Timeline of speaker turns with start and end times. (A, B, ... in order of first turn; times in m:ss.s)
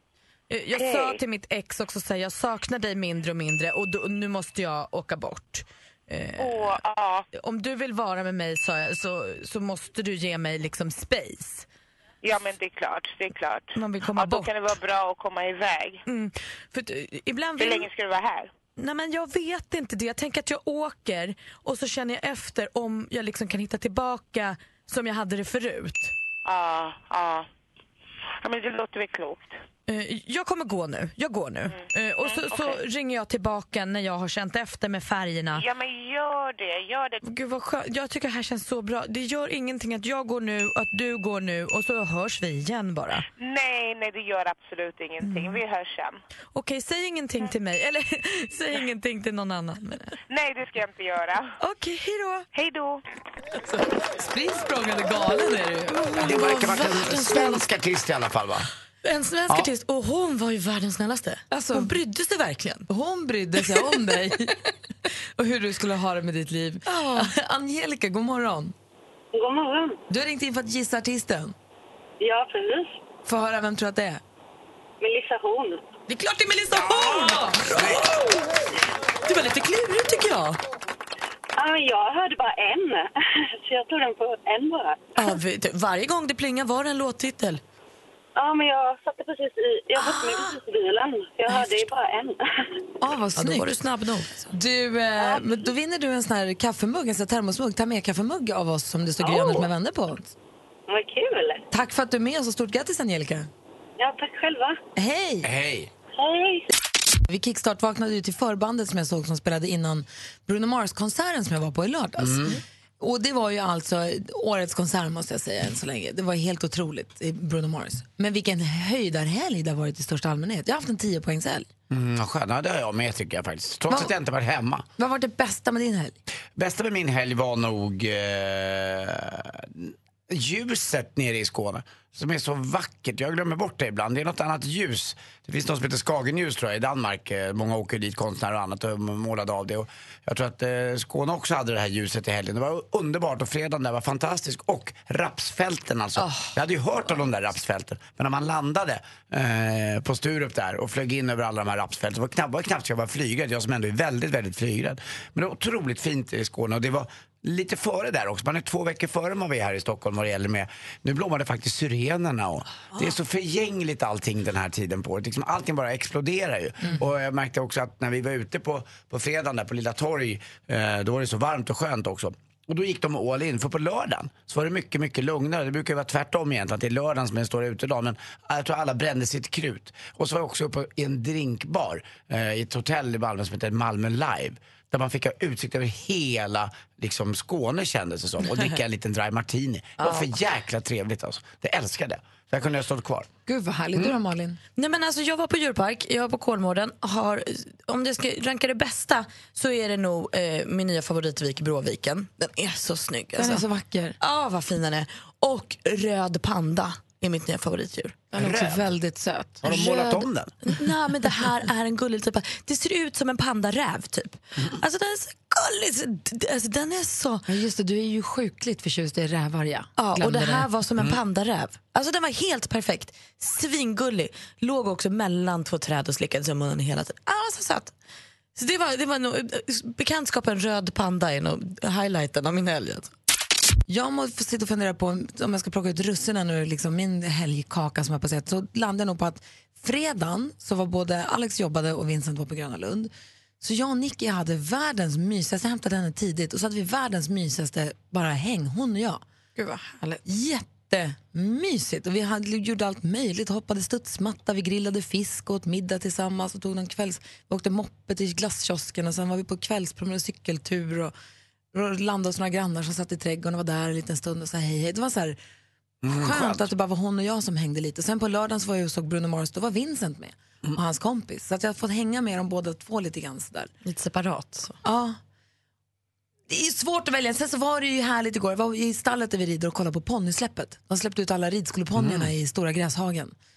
0:00.5-0:06.8 A
0:00.7-0:01.2 B
0:06.4-0:07.3 B
0:07.3-0:11.7 A
0:12.2-0:16.0 B
0:13.8-0:14.5 A
0:16.1-0:17.9 A
0:17.6-0:18.5 B
0:18.8-0:26.1 A
0:26.4-0:27.5 B
0:28.4-0:29.6 B
0:29.9-0:35.6 A
0:31.7-0:32.8 B
0:35.5-0:37.2 B
0:37.2-0:43.2 A
0:43.4-0:46.2 B
0:45.2-0:45.6 A
0:46.5-0:50.1 A
0:50.3-0:51.5 B
0:51.6-0:52.5 A
0:52.5-0:53.0 B
0:54.2-0:56.0 C
0:56.0-0:57.6 A
0:56.2-0:58.7 D
0:59.0-1:02.9 A
1:01.5-1:02.0 C
1:02.9-1:04.5 C
1:03.7-1:04.0 A
1:05.4-1:08.7 C
1:06.9-1:07.3 A
1:09.3-1:10.0 E
1:10.1-1:11.6 C
1:12.2-1:13.0 E
1:13.3-1:14.2 C
1:15.0-1:15.8 E
1:16.1-1:18.3 A
1:19.2-1:20.6 A
1:21.6-1:25.0 E
1:25.2-1:27.6 A
1:28.4-1:32.8 E
1:30.0-1:30.6 A
1:31.5-1:31.9 A
1:33.0-1:33.7 C
1:33.4-1:34.5 A
1:34.5-1:40.3 C
1:35.2-1:35.5 E
1:39.2-1:39.7 E
1:40.9-1:41.6 E
1:41.7-1:43.5 C
1:44.0-1:44.8 E
1:45.0-1:45.5 C
1:45.4-1:45.9 D
1:46.1-1:46.7 E
1:47.3-1:52.5 C
1:52.2-1:52.6 D
1:53.0-2:01.7 C
2:01.9-2:04.9 D
2:05.0-2:06.2 C
2:06.6-3:13.3 D
3:13.5-3:14.6 C
3:14.8-3:23.6 A
3:23.4-3:24.2 C
3:24.2-3:28.3 A
3:28.3-3:30.2 C
3:28.4-3:28.9 D
3:29.6-3:30.5 D
3:30.7-3:37.5 A
3:37.5-3:40.7 C
3:40.0-3:47.9 A
3:48.6-3:53.1 A
3:53.9-4:03.1 C
4:03.6-4:09.2 C
4:09.6-4:10.2 A
4:10.2-4:21.1 C
4:21.7-4:25.4 C
4:26.0-4:26.7 D
4:26.1-4:33.7 C
4:33.8-4:34.8 A
4:34.8-4:35.2 C
4:36.5-4:43.3 C
4:42.0-4:42.3 D